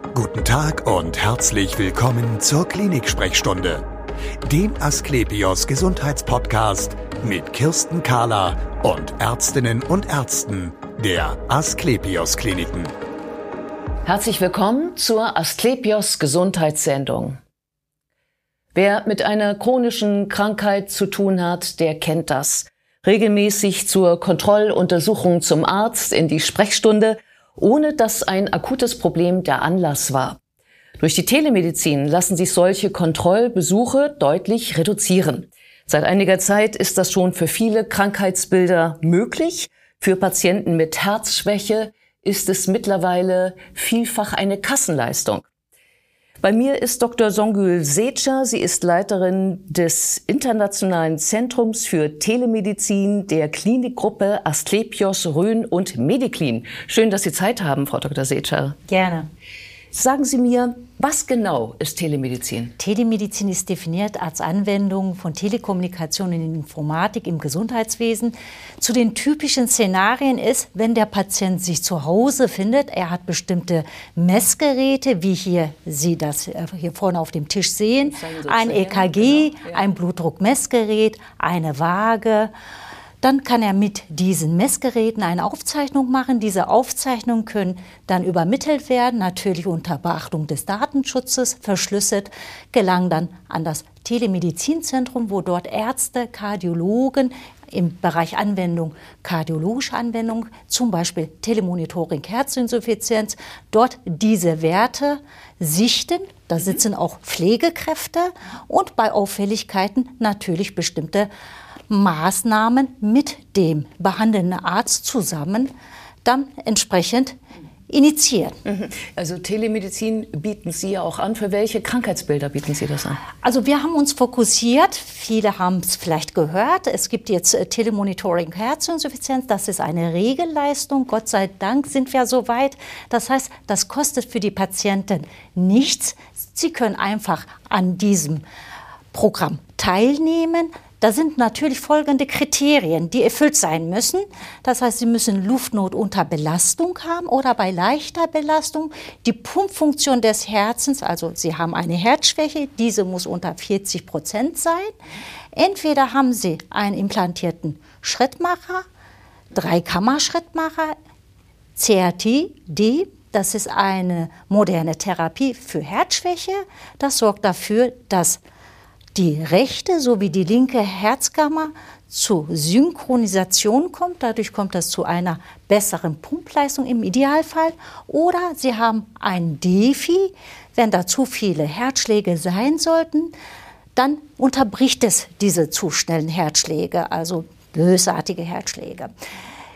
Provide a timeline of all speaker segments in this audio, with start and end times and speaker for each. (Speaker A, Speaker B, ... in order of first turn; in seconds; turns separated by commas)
Speaker A: 0.1-3.9, Speaker A: 4.4-12.9, Speaker B: 14.1-17.4, Speaker B: 18.7-30.4, Speaker B: 31.0-45.5, Speaker B: 46.4-58.8, Speaker C: 58.9-59.3, Speaker B: 59.9-62.7, Speaker C: 62.8-82.5, Speaker B: 78.0-79.8, Speaker C: 83.2-111.3, Speaker C: 111.9-115.7, Speaker C: 116.2-117.4, Speaker C: 117.9-118.6, Speaker B: 118.7-123.2, Speaker C: 123.4-138.4, Speaker C: 139.1-154.9, Speaker C: 155.5-158.8, Speaker C: 159.5-160.9, Speaker C: 161.8-168.4, Speaker C: 169.1-183.3, Speaker C: 183.9-189.1